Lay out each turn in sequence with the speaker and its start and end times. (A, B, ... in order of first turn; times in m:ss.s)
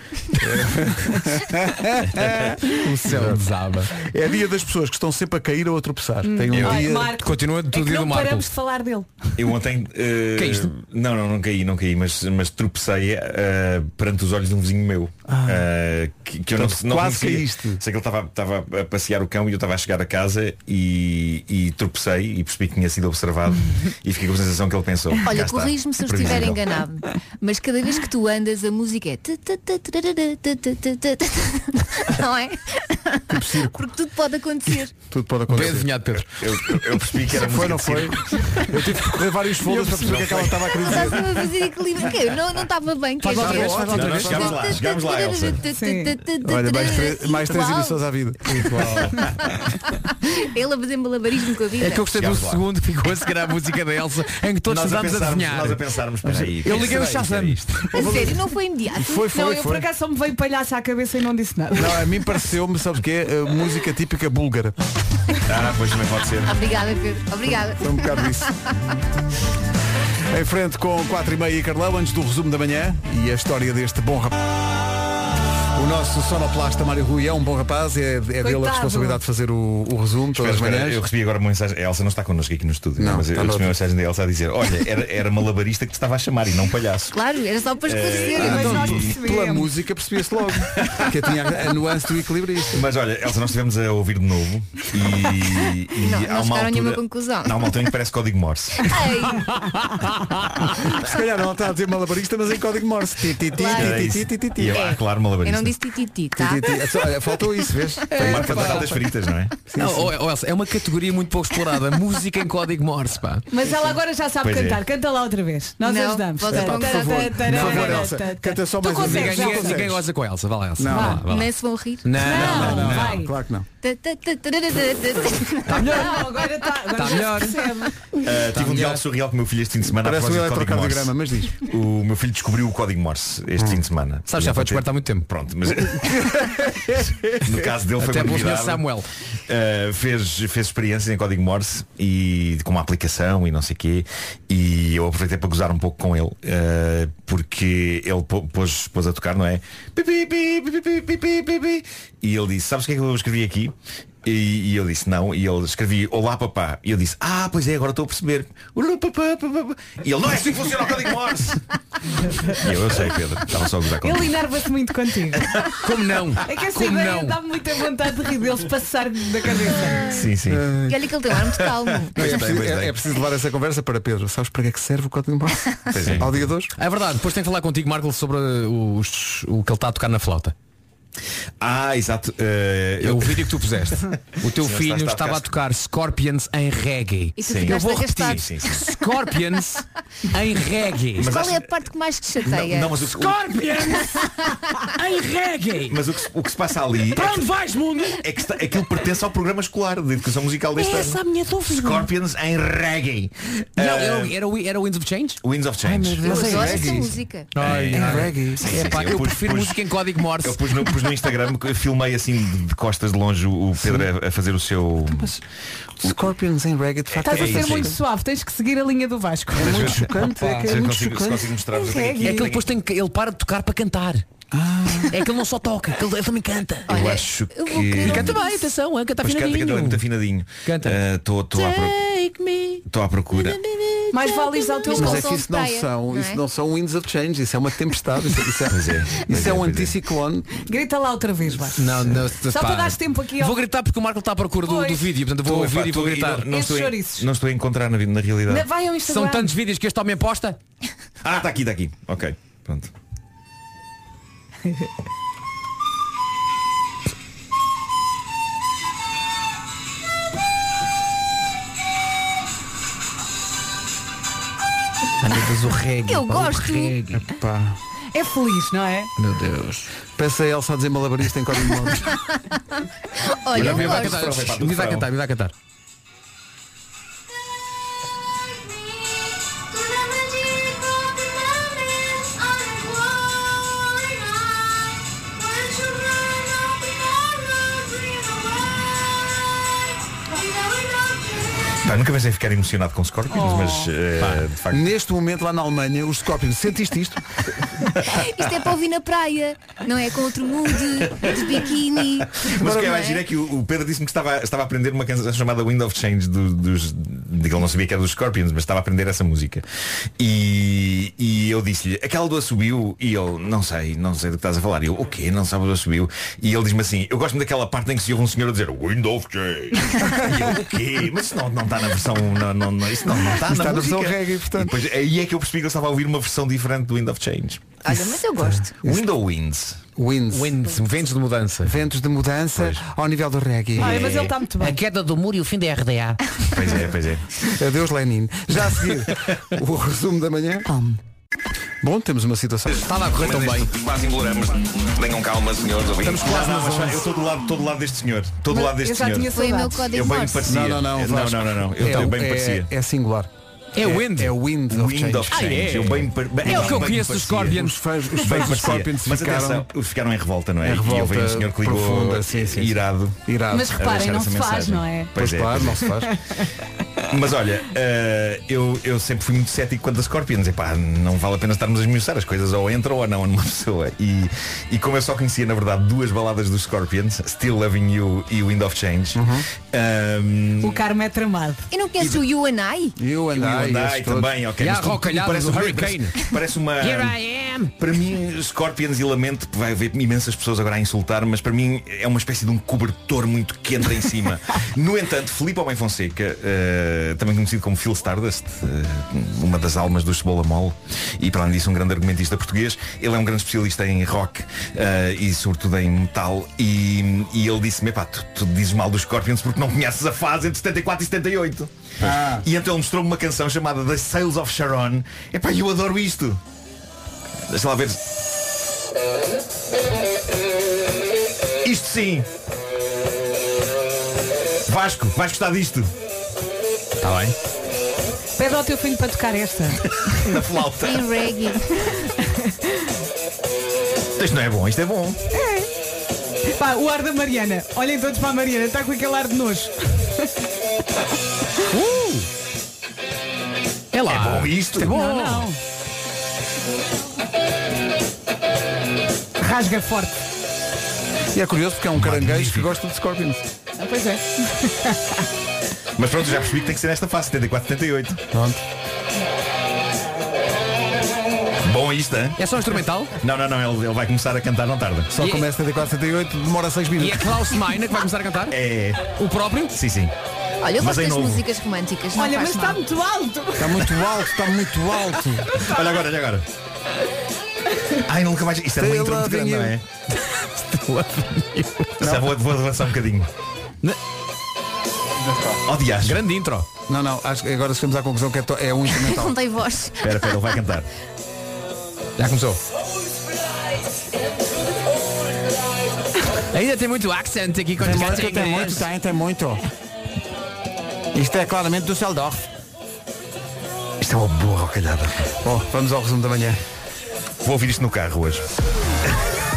0:00.4-0:07.2 A
0:02.2-0:02.5 B
0:02.7-0:03.9 C
0:06.2-0:09.1 D
0:06.5-0:06.8 B
0:07.2-0:08.5 C
0:09.4-0:26.7 B
0:10.4-0:10.7 C
0:15.3-0:15.7 A
0:16.5-0:17.8 A
0:25.2-0:35.0 E
0:33.3-0:33.8 A
0:35.1-0:36.0 A
0:35.5-0:36.2 C
0:36.2-0:38.5 B
0:37.3-0:41.5 A
0:39.8-0:40.7 B
0:40.5-0:48.0 E
0:43.2-0:44.2 C
0:43.2-0:44.6 A
0:43.7-0:45.6 B
0:45.7-0:46.1 D
0:46.4-0:49.2 A
0:50.3-0:52.1 E
0:51.8-0:55.8 C
0:52.1-0:52.7 B
0:54.7-0:57.6 B
0:56.2-0:58.4 A
0:56.6-0:57.6 C
0:57.9-0:59.3 E
0:59.0-0:59.9 A
0:59.3-1:02.0 D
1:01.7-1:04.8 A
1:05.5-1:06.6 B
1:06.4-1:08.6 E
1:07.8-1:08.6 A
1:10.3-1:14.3 A
1:15.8-1:21.0 A
1:18.4-1:19.2 D
1:20.3-1:27.2 B
1:23.0-1:23.8 A
1:27.1-1:29.0 E
1:27.8-1:29.2 B
1:28.2-1:29.7 D
1:28.4-1:32.8 A
1:30.8-1:31.0 B
1:32.7-1:38.9 B
1:36.0-1:37.8 E
1:38.8-1:39.6 E
1:41.0-1:44.8 A
1:43.6-1:46.8 E
1:43.7-1:45.7 B
1:46.4-1:48.9 A
1:48.2-1:49.5 B
1:49.7-1:50.2 A
1:49.8-1:53.4 C
1:53.5-1:59.8 D
1:54.4-1:54.8 B
1:55.8-1:58.0 E
1:56.5-2:00.1 A
1:59.0-2:01.5 C
2:00.8-2:01.2 A
2:00.9-2:01.2 D
2:01.3-2:02.7 E
2:02.0-2:03.2 C
2:02.2-2:03.3 D
2:02.4-2:03.7 A
2:03.8-2:06.5 E
2:05.7-2:06.1 C
2:05.8-2:07.9 D
2:07.0-2:07.6 C
2:08.2-2:16.3 B
2:08.5-2:08.9 C
2:08.6-2:09.0 A
2:09.8-2:11.6 A
2:13.6-2:13.8 A
2:14.3-2:15.3 C
2:15.9-2:17.6 A
2:17.4-2:18.9 B
2:18.0-2:19.1 C
2:19.5-2:41.6 B
2:42.3-2:42.5 D
2:42.5-2:44.3 B
2:44.0-2:45.5 D
2:45.3-2:46.4 B
2:45.8-2:47.4 C
2:46.4-2:50.1 D
2:49.8-2:52.7 E
2:50.1-2:50.7 B
2:50.5-2:51.0 A
2:52.2-2:52.9 B
2:52.2-2:56.7 A
2:55.9-2:56.5 B
2:56.8-3:00.5 C
3:01.6-3:05.6 B
3:03.0-3:11.3 C
3:07.4-3:09.3 E
3:07.4-3:08.8 B
3:11.2-3:13.0 E
3:11.2-3:11.7 B
3:12.5-3:13.4 B
3:13.1-3:16.0 C
3:13.9-3:14.8 E
3:15.9-3:17.5 B
3:17.1-3:18.2 C
3:18.2-3:24.4 B
3:20.7-3:22.1 C
3:23.8-3:27.0 C
3:25.4-3:26.2 B
3:26.2-3:28.8 A
3:26.2-3:27.5 E
3:27.5-3:30.8 C
3:27.6-3:35.4 B
3:33.8-3:34.1 A
3:35.1-3:35.4 A
3:36.0-3:38.0 A
3:37.1-3:37.9 B
3:37.2-3:39.9 D
3:39.6-3:41.6 A
3:39.6-3:42.7 B
3:41.7-3:42.5 D
3:42.2-3:44.2 C
3:44.5-3:45.1 A
3:45.1-3:46.9 C
3:46.9-3:48.6 E
3:46.9-3:48.4 B
3:48.0-3:50.0 C
3:49.2-3:52.0 B
3:50.6-3:51.0 C
3:51.6-3:51.9 E
3:52.2-3:52.8 C
3:52.9-3:53.6 B
3:53.4-3:56.4 E
3:54.1-3:55.3 D
3:54.9-4:00.5 A
3:58.7-4:00.0 B
4:00.6-4:03.6 D
4:01.8-4:06.5 C
4:04.6-4:05.0 D
4:05.5-4:08.6 B
4:06.5-4:07.3 D
4:08.5-4:09.5 D
4:09.1-4:10.6 C
4:11.2-4:12.9 B
4:25.2-4:27.3 C
4:26.0-4:27.0 E
4:27.3-4:27.8 A
4:28.1-4:29.1 D
4:29.2-4:29.9 C
4:30.1-4:32.2 A
4:33.2-4:34.4 E
4:33.5-4:35.1 B
4:33.6-4:35.5 C
4:51.8-4:54.9 B
4:53.3-4:53.9 D
4:54.7-4:57.4 A
4:58.0-5:03.2 E
5:01.0-5:01.4 B
5:02.4-5:09.6 B
5:10.2-5:27.8 B
5:23.1-5:24.8 A
5:27.8-5:28.8 E
5:28.4-5:29.1 A
5:28.8-5:29.8 B
5:30.0-5:30.6 A
5:30.3-5:31.8 C
5:31.6-5:34.3 A
5:32.6-5:32.8 B
5:33.8-5:34.8 D
5:34.6-5:36.2 C
5:36.5-5:37.4 B
5:37.4-5:40.7 A
5:40.7-5:41.0 D
5:41.8-5:42.9 A
5:42.7-5:49.3 B
5:42.8-5:43.7 C
5:46.0-5:47.0 C
5:48.5-5:50.0 D
5:49.3-5:50.5 E
5:49.9-5:52.7 B
5:50.5-5:55.9 A
5:53.8-5:54.4 C
5:54.7-5:57.6 B
5:55.3-5:58.5 C
5:57.5-5:59.7 A
5:58.2-6:03.2 B
6:00.6-6:03.8 A
6:03.5-6:05.1 D
6:03.7-6:06.0 B
6:05.2-6:06.1 A
6:07.1-6:20.8 B
6:19.1-6:19.4 A
6:20.6-6:21.6 D
6:21.7-6:23.0 E
6:23.0-6:24.4 A
6:23.3-6:27.2 B
6:24.6-6:26.2 C
6:26.8-6:27.7 C
6:27.8-6:56.4 B
6:52.1-6:52.4 A
6:57.5-6:58.0 B
7:01.6-7:02.3 B
7:04.7-7:05.9 B
7:07.0-7:07.4 B
7:08.4-7:09.8 D
7:10.1-7:11.0 B
7:10.8-7:12.0 E
7:14.2-7:15.2 B
7:15.3-7:15.7 D
7:16.5-7:19.8 D
7:21.7-7:22.3 C
7:23.9-7:25.5 C
7:24.1-7:25.0 B
7:24.9-7:25.6 D
7:29.4-7:30.2 D
7:31.3-7:33.4 A
7:32.0-7:32.7 B
7:34.6-7:35.1 D
7:36.0-7:38.2 B
7:38.3-7:38.6 A
7:41.6-7:42.4 B
7:42.4-7:43.1 C
7:43.2-7:45.1 B
7:45.1-7:47.6 A
7:45.2-7:45.5 C
7:47.0-7:48.6 C
7:48.5-7:49.1 B
7:49.1-7:49.8 C
7:49.7-7:50.1 B
7:50.6-7:52.8 E
7:50.8-7:51.4 B
7:52.2-7:54.1 D
7:53.6-7:55.5 A
7:55.5-7:56.4 B
7:58.1-7:59.8 B
7:58.8-7:59.8 A
8:00.3-8:02.1 C
8:02.0-8:02.3 A
8:02.0-8:03.3 B
8:05.6-8:06.2 B
8:06.0-8:06.7 C
8:06.9-8:09.4 A
8:09.0-8:10.6 E
8:10.0-8:10.9 B
8:12.2-8:12.6 C
8:16.5-8:18.9 C
8:17.8-8:19.6 A
8:21.1-8:22.5 A
8:24.0-8:25.3 B
8:25.4-8:26.6 A
8:27.4-8:28.4 B